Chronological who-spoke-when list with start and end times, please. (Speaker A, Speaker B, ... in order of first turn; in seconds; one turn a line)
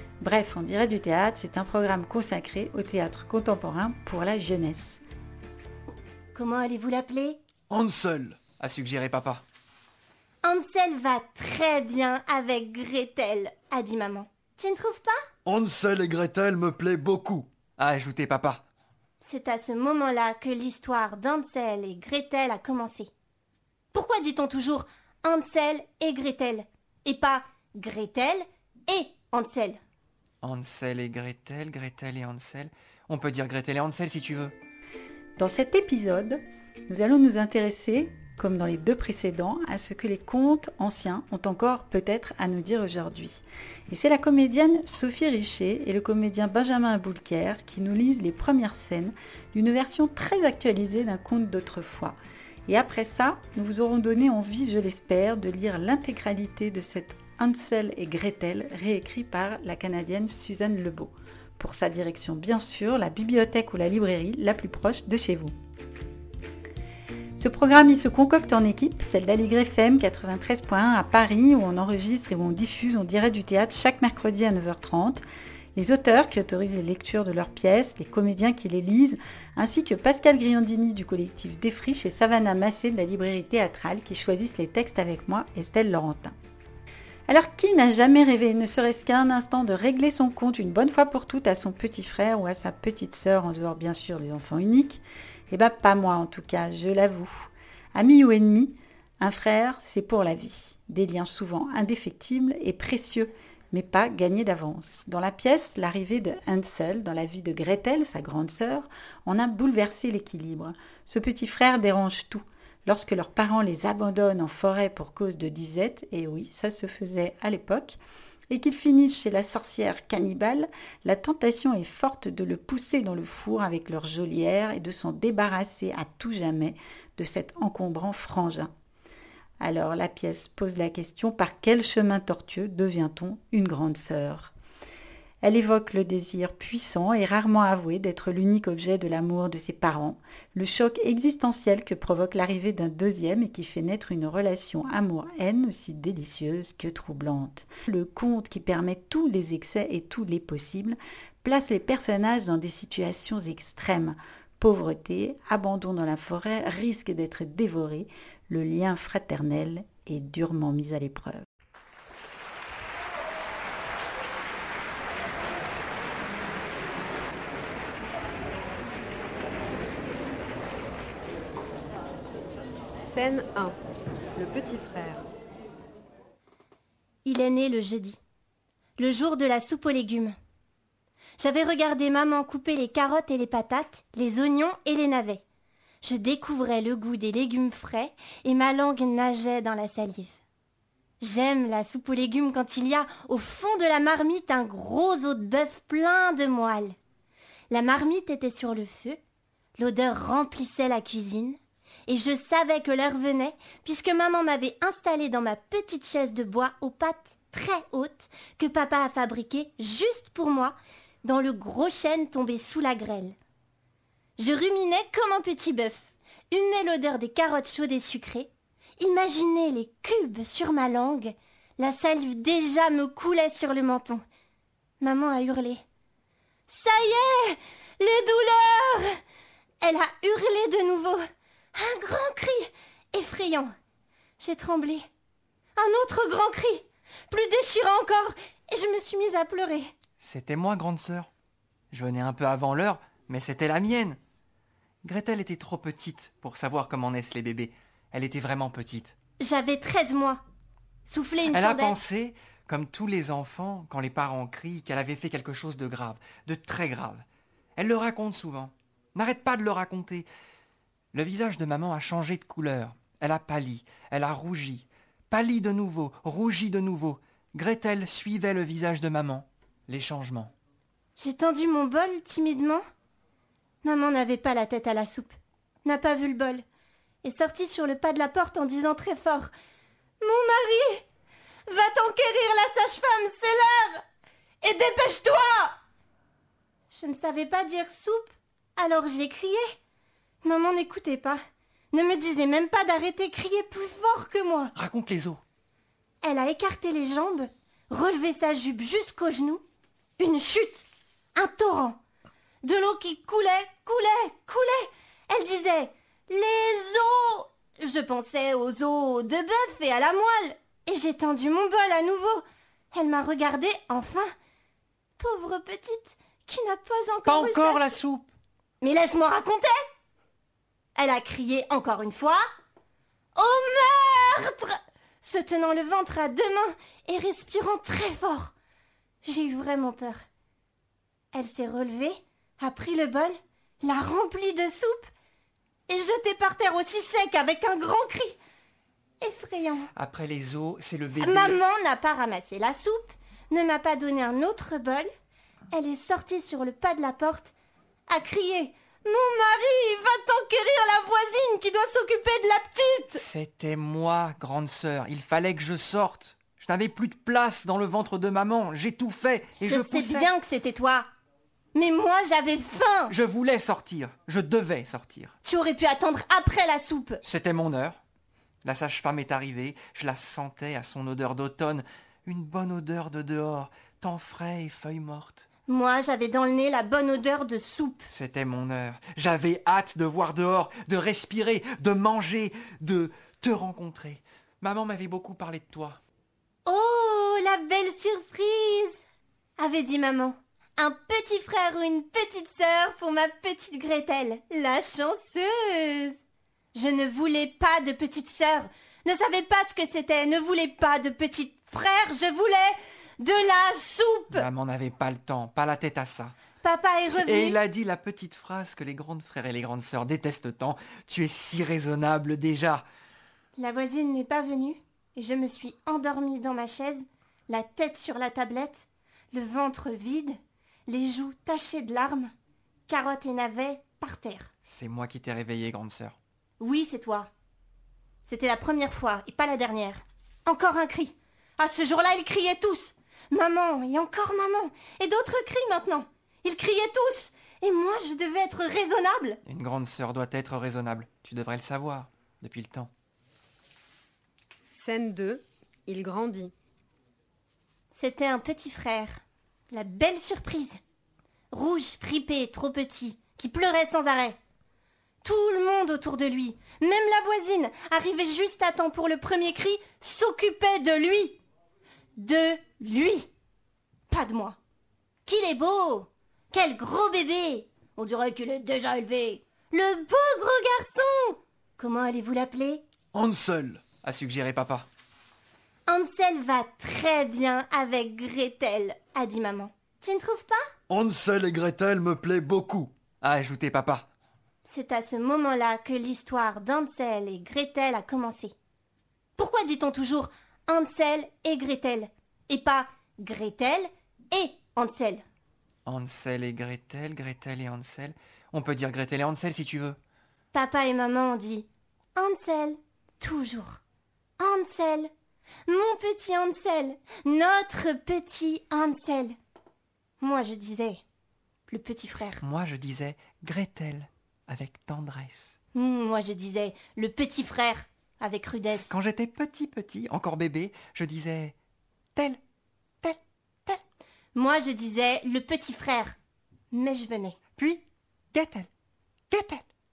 Speaker A: 0.2-5.0
Speaker B: 6.3-7.4
Speaker C: 7.7-8.4
Speaker D: 8.6-9.4
Speaker B: 10.4-15.2
Speaker C: 15.4-17.5
Speaker D: 17.8-18.6
Speaker B: 19.2-23.1
Speaker B: 23.9-29.8
Speaker D: 30.4-34.5
Speaker A: 35.4-52.1
Speaker A: 52.7-65.5
Speaker A: 67.4-75.2
Speaker A: 75.8-86.3
Speaker A: 87.3-118.0
Speaker A: 118.5-128.7
Speaker A: 129.6-134.5
Speaker A: 135.4-161.4
Speaker E: 173.0-173.8
Speaker E: 174.3-175.2
Speaker B: 177.2-178.2
Speaker B: 179.0-180.3
Speaker B: 181.4-185.4
Speaker B: 186.0-190.3
Speaker B: 191.2-196.9
Speaker B: 197.7-199.2
Speaker B: 199.8-213.3
Speaker B: 214.4-224.2
Speaker B: 225.0-225.8
Speaker B: 226.7-229.2
Speaker B: 229.8-231.2
Speaker B: 231.8-233.7
Speaker B: 234.4-235.1
Speaker B: 235.8-239.9
Speaker D: 240.2-241.3
Speaker D: 241.9-244.2
Speaker D: 245.0-249.1
Speaker B: 249.4-250.4
Speaker B: 251.1-252.0
Speaker D: 251.5-257.2
Speaker D: 257.8-260.3
Speaker D: 261.1-270.5
Speaker B: 271.2-272.8
Speaker B: 273.8-276.6
Speaker B: 277.2-279.5
Speaker B: 280.2-281.1
Speaker B: 281.7-284.0
Speaker B: 284.6-285.8
Speaker B: 286.9-289.6
Speaker B: 290.4-291.4
Speaker B: 291.9-294.7
Speaker D: 294.8-295.4
Speaker B: 296.2-299.6
Speaker B: 300.2-300.9
Speaker B: 301.4-302.0
Speaker B: 302.6-314.3
Speaker B: 315.2-317.9
Speaker D: 317.2-318.3
Speaker B: 318.8-319.8
Speaker B: 320.9-322.4
Speaker B: 323.4-328.5
Speaker B: 329.2-330.2
Speaker B: 331.3-335.1
Speaker B: 335.9-338.4
Speaker B: 339.2-339.9
Speaker D: 339.9-341.6
Speaker B: 341.2-345.1
Speaker B: 345.7-347.5
Speaker B: 348.1-353.2
Speaker D: 353.1-360.3
Speaker B: 359.6-361.1
Speaker B: 361.7-363.1
Speaker D: 363.1-365.3
Speaker B: 365.4-367.2
Speaker D: 367.2-368.0
Speaker D: 368.6-375.4
Speaker B: 375.7-378.1
Speaker D: 378.1-386.0
Speaker B: 386.6-389.0
Speaker B: 389.6-396.2
Speaker B: 396.7-404.4
Speaker D: 404.3-406.4
Speaker B: 406.6-407.6
Speaker D: 407.2-412.8
Speaker B: 413.6-422.3
Speaker B: 422.9-424.5
Speaker D: 424.6-426.2
Speaker B: 426.6-427.3
Speaker B: 428.2-439.4
Speaker D: 439.4-442.9
Speaker E: 444.7-446.5
Speaker B: 447.9-450.8
Speaker B: 451.5-454.4
Speaker B: 455.2-461.4
Speaker B: 462.2-463.3
Speaker B: 464.1-464.6
Speaker B: 465.2-472.8
Speaker C: 473.1-473.8
Speaker D: 474.0-474.9
Speaker B: 475.9-480.6
Speaker C: 480.9-482.9
Speaker D: 483.2-484.1
Speaker B: 484.6-488.5
Speaker B: 489.4-495.2
Speaker D: 495.9-500.0
Speaker B: 500.5-503.8
Speaker B: 504.4-505.1
Speaker B: 505.7-509.4
Speaker B: 510.2-511.0
Speaker B: 511.7-512.4
Speaker D: 512.4-515.5
Speaker B: 515.7-518.9
Speaker D: 518.9-521.5
Speaker D: 522.1-522.4
Speaker D: 523.0-523.8
Speaker B: 524.4-526.1
Speaker B: 526.7-527.4
Speaker D: 527.6-528.7
Speaker D: 529.3-529.6